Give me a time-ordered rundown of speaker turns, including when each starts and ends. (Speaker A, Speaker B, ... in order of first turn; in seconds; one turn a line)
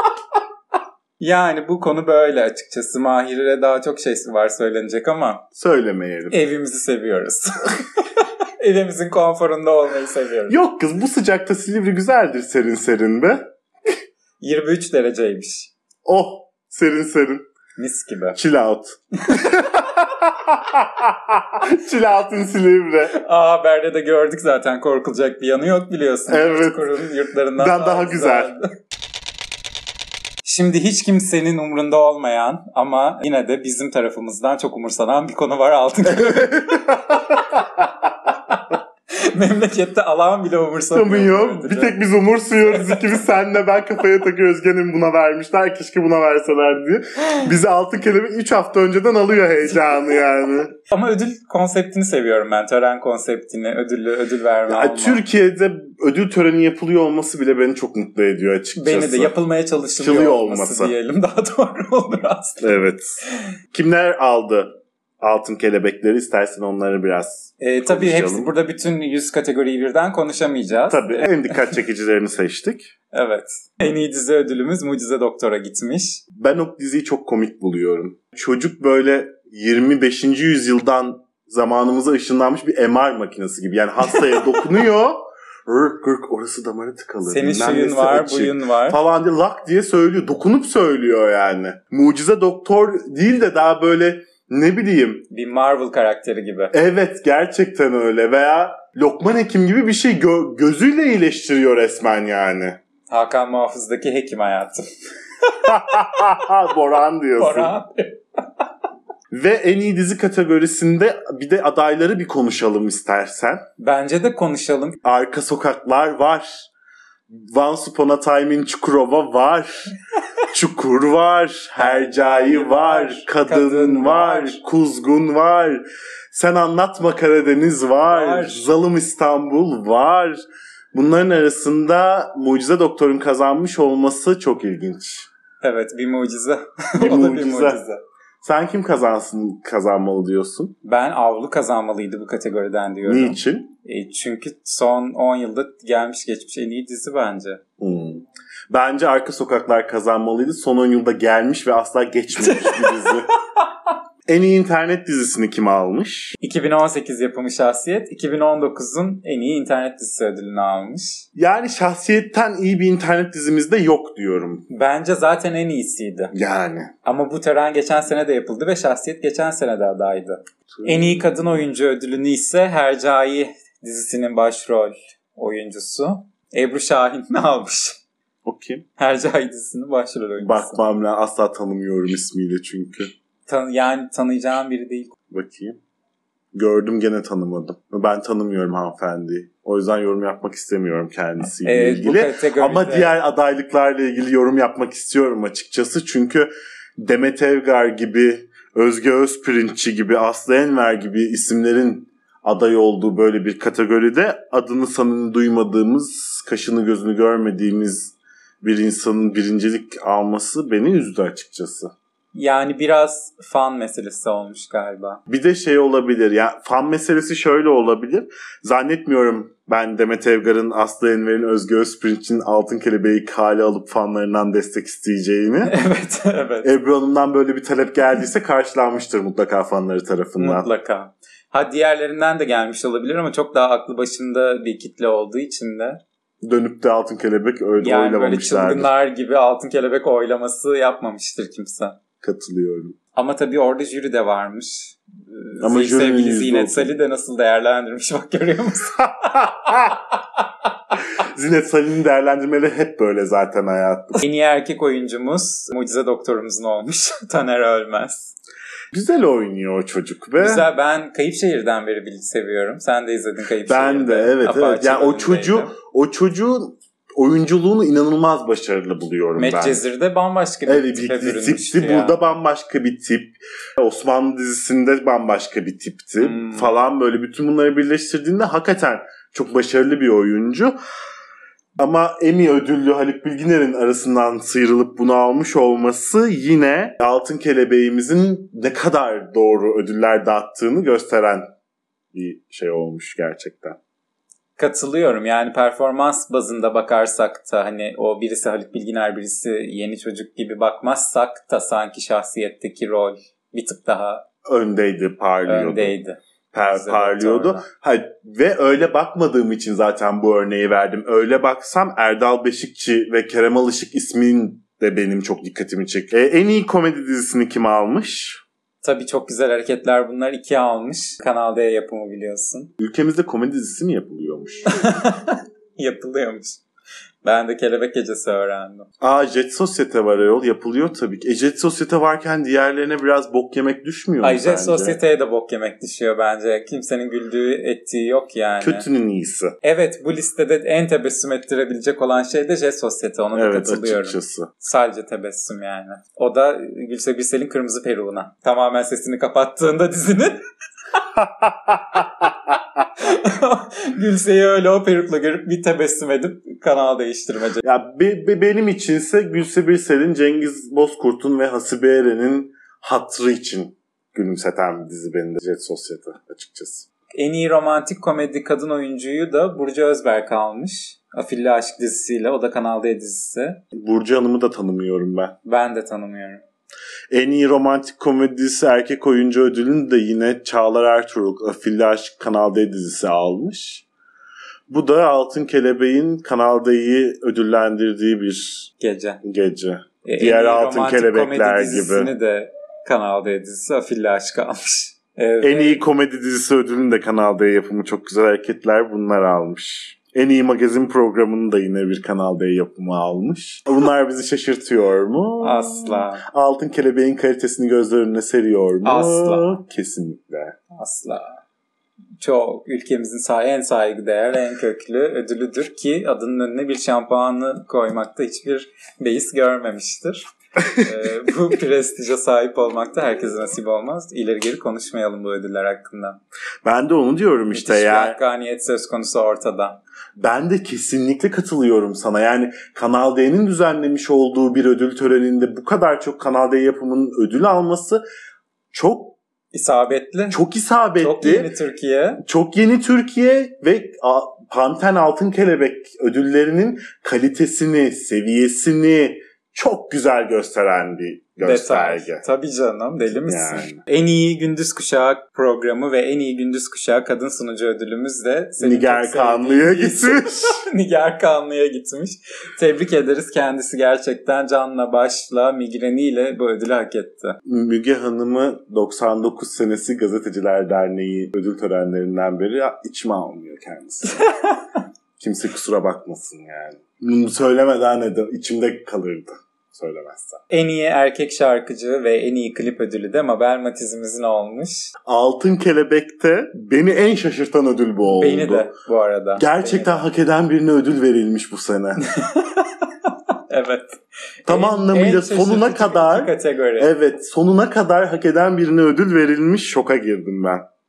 Speaker A: 1.2-5.4
Speaker B: 5.5-6.4
Speaker A: 6.3-10.5
Speaker B: 10.5-13.4
Speaker A: 14.4-15.7
Speaker B: 16.1-17.4
Speaker A: 17.8-18.4
Speaker B: 18.3-23.1
Speaker A: 23.1-28.7
Speaker B: 26.3-26.9
Speaker B: 27.6-28.5
Speaker A: 30.4-37.0
Speaker B: 36.1-37.9
Speaker A: 39.1-42.0
Speaker B: 40.9-50.7
Speaker A: 42.7-43.0
Speaker A: 50.9-55.2
Speaker B: 54.7-59.3
Speaker A: 58.8-62.8
Speaker B: 60.0-60.9
Speaker B: 62.6-63.2
Speaker B: 63.7-68.5
Speaker A: 67.6-71.5
Speaker B: 70.9-72.9
Speaker A: 73.1-76.2
Speaker B: 76.3-95.2
Speaker A: 87.3-89.0
Speaker A: 95.3-96.7
Speaker B: 96.7-102.8
Speaker A: 103.1-104.9
Speaker A: 105.4-105.7
Speaker B: 105.6-107.7
Speaker A: 107.4-108.2
Speaker B: 109.3-113.6
Speaker A: 113.8-115.0
Speaker B: 115.0-116.7
Speaker B: 117.3-119.9
Speaker B: 120.5-130.4
Speaker A: 121.8-124.6
Speaker A: 128.1-128.6
Speaker B: 130.9-135.3
Speaker A: 135.6-138.0
Speaker B: 137.0-137.8
Speaker B: 138.4-140.7
Speaker A: 140.8-147.6
Speaker B: 143.0-143.7
Speaker B: 147.8-153.3
Speaker A: 152.4-153.2
Speaker B: 154.3-156.4
Speaker A: 156.4-161.2
Speaker B: 161.3-164.7
Speaker A: 164.7-166.3
Speaker B: 166.3-166.9
Speaker A: 167.0-178.0
Speaker B: 170.7-171.3
Speaker B: 178.4-178.8
Speaker A: 179.0-180.8
Speaker B: 180.4-183.1
Speaker A: 183.5-185.1
Speaker B: 185.3-185.8
Speaker B: 186.5-211.9
Speaker A: 191.6-193.1
Speaker A: 212.3-215.2
Speaker B: 215.3-225.7
Speaker A: 225.6-226.7
Speaker B: 226.6-230.7
Speaker A: 230.4-236.0
Speaker B: 236.4-238.9
Speaker A: 237.8-242.0
Speaker B: 242.2-243.0
Speaker A: 243.1-249.8
Speaker B: 245.6-246.9
Speaker B: 249.4-249.9
Speaker B: 251.2-254.2
Speaker A: 254.2-258.3
Speaker B: 258.9-260.7
Speaker A: 260.4-265.7
Speaker B: 263.6-269.8
Speaker A: 269.4-272.2
Speaker B: 270.6-280.8
Speaker A: 276.2-276.7
Speaker B: 281.8-291.5
Speaker B: 292.1-293.8
Speaker A: 294.6-304.2
Speaker B: 304.4-305.9
Speaker A: 305.4-307.6
Speaker B: 306.5-318.4
Speaker A: 318.8-322.7
Speaker B: 322.8-324.8
Speaker A: 324.7-326.6
Speaker A: 327.2-328.9
Speaker B: 329.0-335.0
Speaker A: 334.2-338.9
Speaker B: 338.6-339.6
Speaker A: 339.6-350.4
Speaker B: 343.3-344.5
Speaker B: 351.1-352.6
Speaker A: 353.0-357.6
Speaker B: 357.6-366.9
Speaker A: 367.1-373.6
Speaker B: 373.7-375.4
Speaker A: 375.4-376.4
Speaker B: 377.1-383.8
Speaker B: 384.7-388.7
Speaker A: 388.8-389.2
Speaker B: 389.2-392.1
Speaker A: 390.0-395.8
Speaker B: 395.4-410.6
Speaker A: 405.4-406.2
Speaker A: 408.8-409.6
Speaker A: 410.7-411.4
Speaker A: 412.2-426.2
Speaker B: 426.6-428.2
Speaker A: 427.5-429.8
Speaker B: 430.1-438.0
Speaker B: 438.7-439.2
Speaker A: 439.5-440.4
Speaker B: 440.3-441.5
Speaker A: 441.0-442.2
Speaker B: 442.2-452.2
Speaker A: 451.4-467.4
Speaker B: 453.3-453.8
Speaker B: 458.6-460.6
Speaker B: 467.4-474.2
Speaker A: 474.2-474.6
Speaker B: 475.2-480.4
Speaker A: 480.5-484.9
Speaker B: 485.0-488.7
Speaker A: 488.1-490.1
Speaker B: 489.4-492.0
Speaker A: 492.1-492.7
Speaker A: 493.5-496.9
Speaker B: 494.4-500.6